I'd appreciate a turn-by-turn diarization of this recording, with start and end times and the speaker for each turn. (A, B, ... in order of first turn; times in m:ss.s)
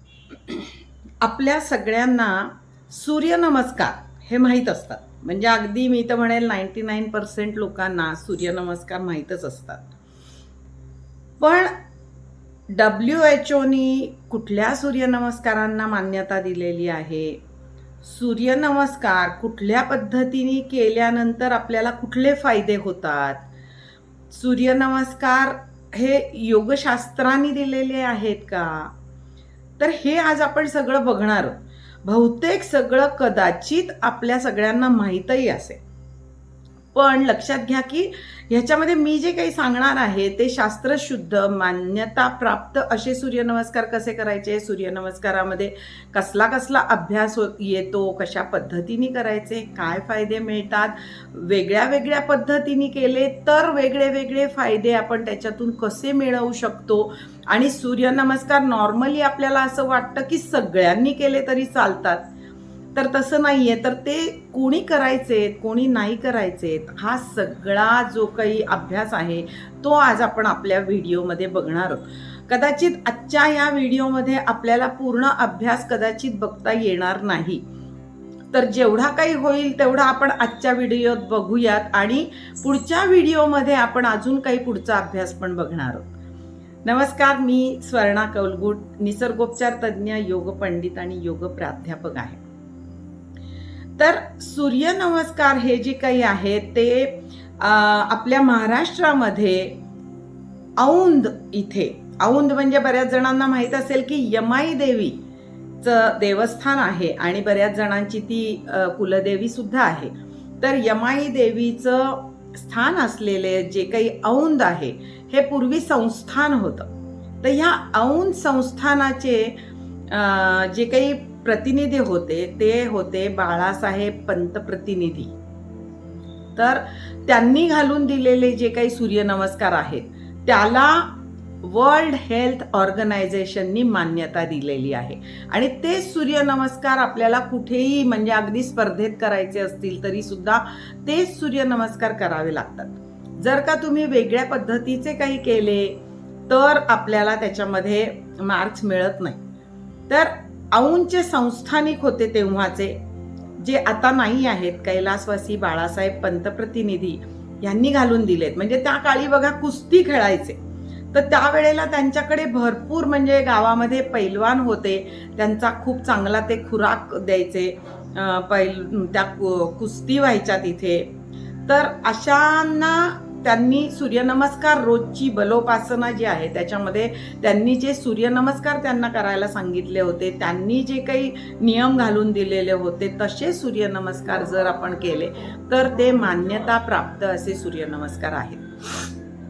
0:00.5-0:09.8 A
0:11.4-0:11.7 A
0:12.7-0:17.4 A
0:18.0-0:23.4 A
0:24.3-0:28.9 A
0:29.8-0:35.8 A
0:36.9-1:02.2 A
1:02.9-1:17.6 A
1:18.5-1:26.1 A
1:26.8-1:32.4 A
1:34.0-1:39.8 A
1:40.8-1:45.2 A
1:45.8-1:56.9 A
1:57.4-1:59.6 A
2:00.1-2:05.3 A
2:06.6-2:29.4 A
2:30.1-2:33.0 A
2:33.6-2:40.6 A
2:41.1-2:51.1 A
2:51.7-3:09.1 A